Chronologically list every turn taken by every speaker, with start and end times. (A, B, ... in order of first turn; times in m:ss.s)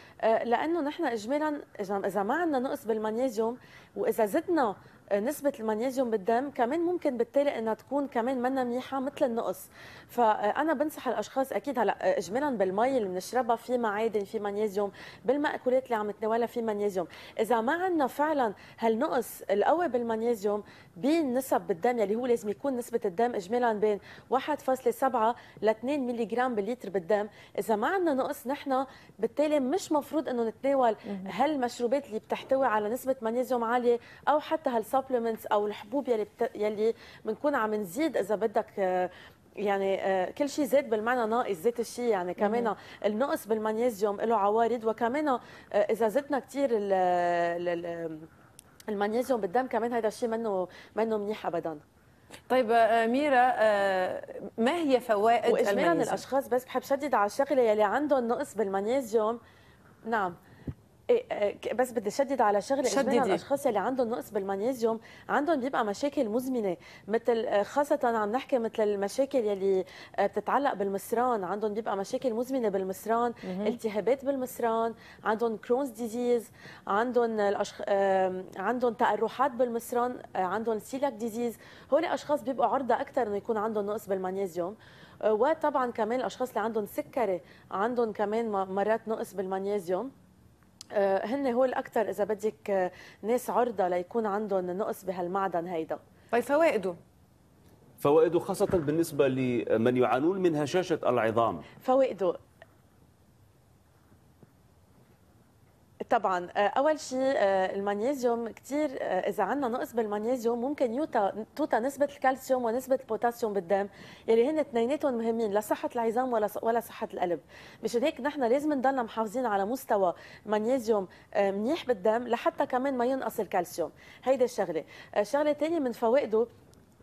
0:00.2-0:39.1 A
0:39.6-0:48.3 A
0:42.4-0:42.7 B
0:48.9-0:51.8 A
0:52.5-0:56.2 B
0:55.5-0:59.4 A
1:00.1-1:00.4 A
1:01.1-1:30.1 A
1:02.8-1:03.4 B
1:13.4-1:13.8 B
1:31.0-1:36.0 A
1:36.3-1:37.0 B
1:38.0-1:41.7 C
1:41.8-1:42.4 A
1:46.1-2:06.5 A